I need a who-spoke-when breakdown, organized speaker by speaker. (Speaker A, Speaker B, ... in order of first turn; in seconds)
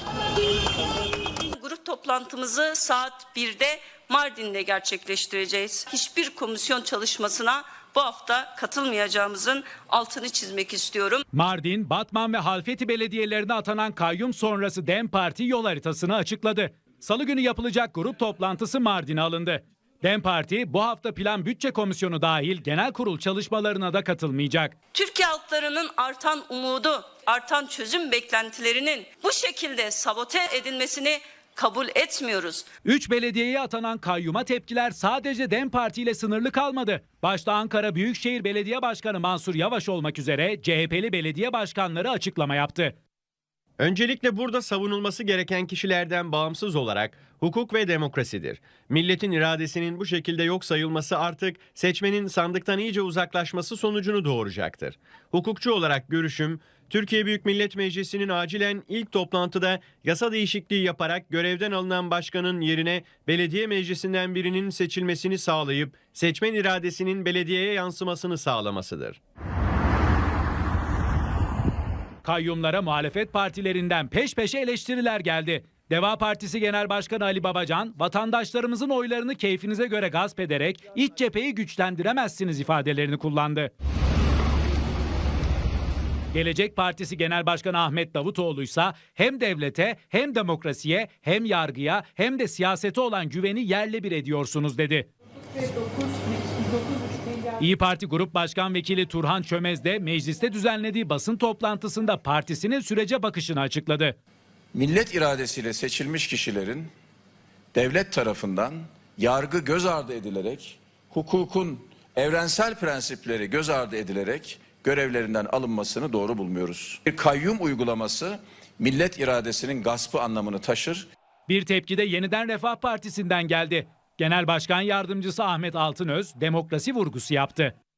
Speaker A: 1.4-11.2, 24.9-32.7
Speaker B: 11.3-24.8, 32.8-43.0, 72.2-83.7, 86.3-95.1, 97.6-104.2, 121.5-127.7
Speaker C: 43.8-69.2
Speaker D: 104.7-106.9, 107.7-121.0